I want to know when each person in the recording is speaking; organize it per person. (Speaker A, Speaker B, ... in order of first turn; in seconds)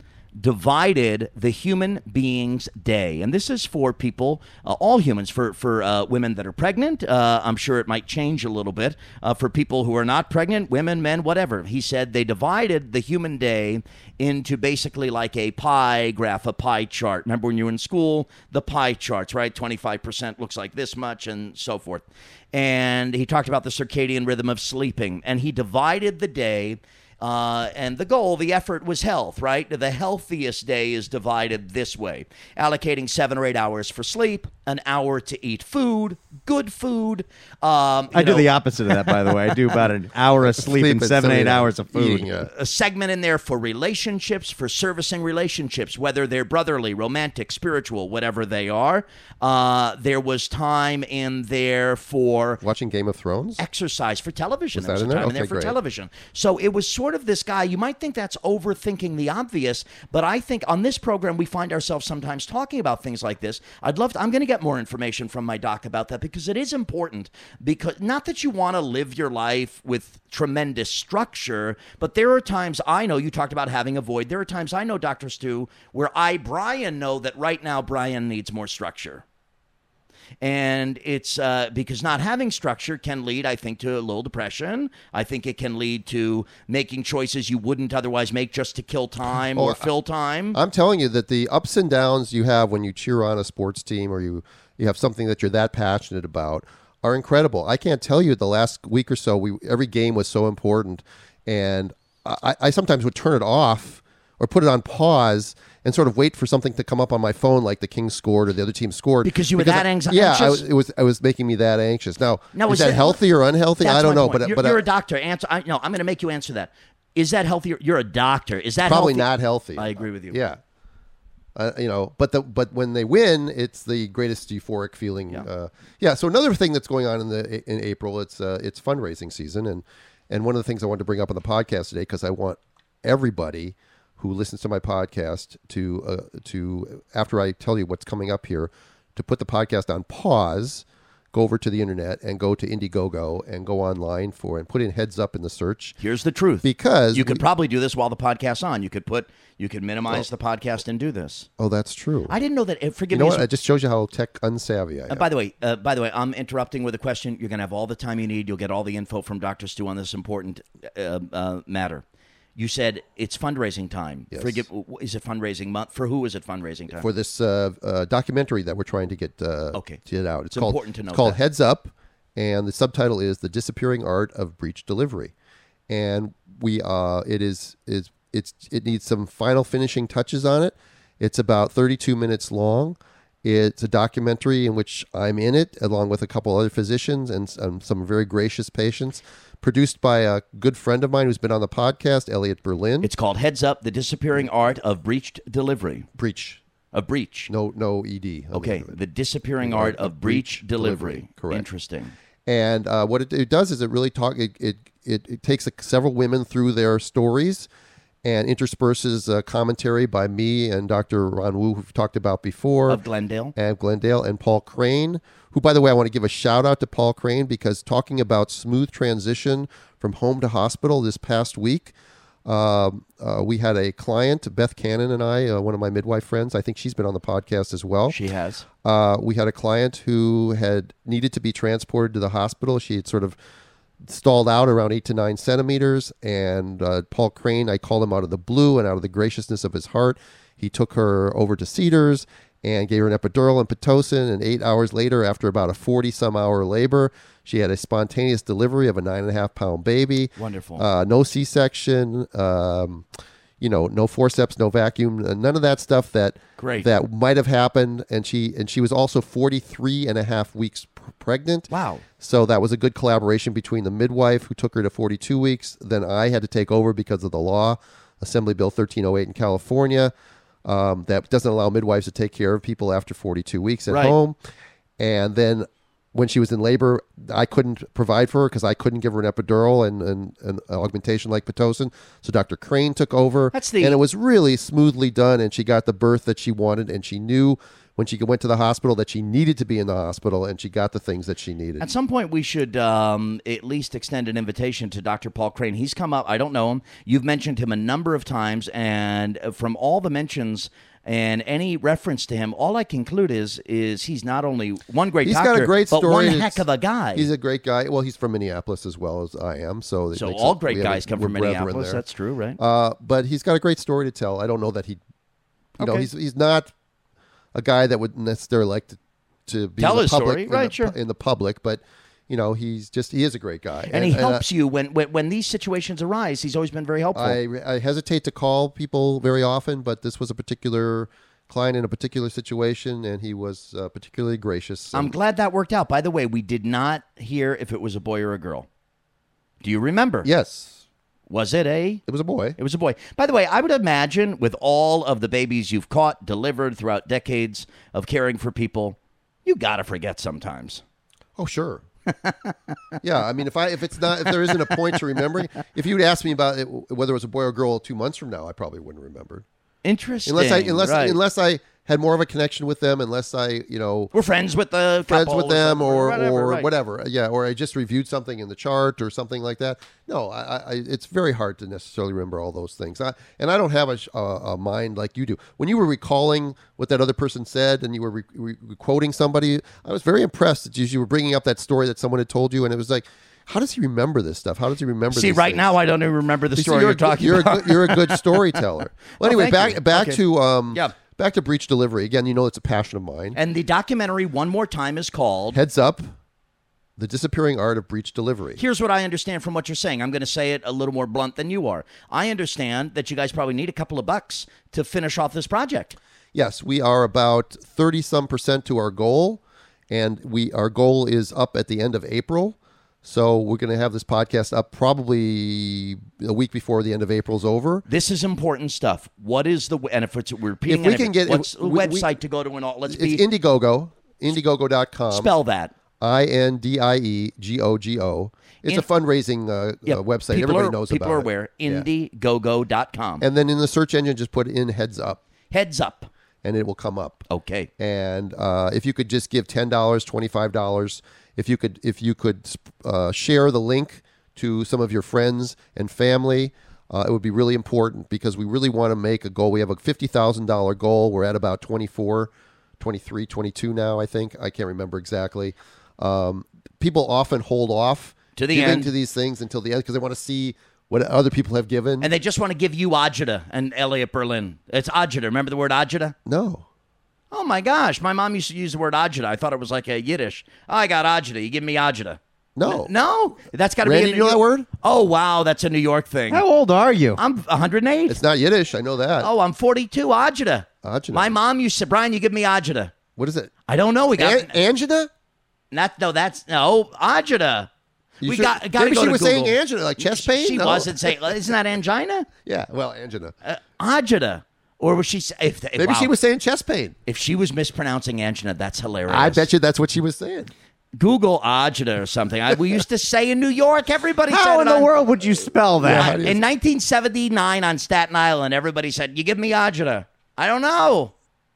Speaker A: 0.4-38.5, 39.0-39.4, 42.5-52.6, 53.6-79.2, 80.4-90.6, 109.2-110.6, 112.5-113.2, 113.8-120.4, 146.0-151.5, 152.3-153.4, 155.1-162.0, 162.6-167.1, 169.7-170.0, 170.5-171.4, 193.0-196.1, 196.9-197.5, 198.5-202.1, 212.9-213.5, 228.1-228.7, 250.4-250.8, 256.6-256.9, 261.7-262.0, 273.9-274.1, 283.5-284.0, 291.8-307.3, 310.1-312.6, 315.8-316.1, 319.8-320.9, 323.9-327.4, 334.9-338.7, 339.6-340.3, 341.3-342.0, 342.6-350.8, 352.1-352.7, 354.2-355.0, 359.8-361.2, 364.1-366.7, 385.1-388.5, 389.2-390.2, 393.3-395.6, 398.6-405.9, 417.9-423.2, 425.1-425.7, 429.9-433.2, 435.5-436.1, 437.3-437.7, 458.4-458.9, 462.0-466.1, 467.3-476.4, 477.2-478.2, 479.2-482.9, 483.7-484.6, 485.7-487.7, 488.2-492.3, 493.4-496.1, 497.1-499.5, 501.0-504.9, 505.8-511.1
Speaker B: 38.1-42.3, 476.3-477.2, 504.3-506.2
Speaker C: 40.5-42.5, 52.6-53.6, 54.7-55.8, 89.5-89.9, 90.5-114.8, 118.8-120.6, 121.5-146.0, 146.6-147.4, 151.6-152.3, 153.1-155.2, 164.3-164.6, 166.9-175.3, 175.9-193.1, 196.2-196.6, 197.5-198.9, 199.6-201.6, 202.4-207.7, 208.2-213.0, 213.5-221.9, 222.4-228.2, 228.8-233.3, 234.0-253.1, 253.6-270.1, 270.6-274.4, 275.0-291.8, 305.2-312.0, 312.6-315.0, 315.8-316.7, 317.5-324.4, 327.1-335.1, 340.2-340.8, 342.1-342.6, 351.4-351.8, 353.0-359.4, 360.2-364.1, 365.1-385.7, 386.6-393.4, 395.5-396.1, 397.0-398.6, 406.3-417.9, 420.7-422.1, 422.9-425.3, 426.0-431.9, 433.2-435.2, 436.4-437.2, 437.8-462.1, 466.2-466.6, 472.6-472.9, 473.8-474.7, 478.1-479.3, 480.8-481.3, 483.1-483.5, 484.1-485.1, 488.2-491.4, 492.4-493.3, 495.8-496.9, 499.1-500.5, 505.8-506.4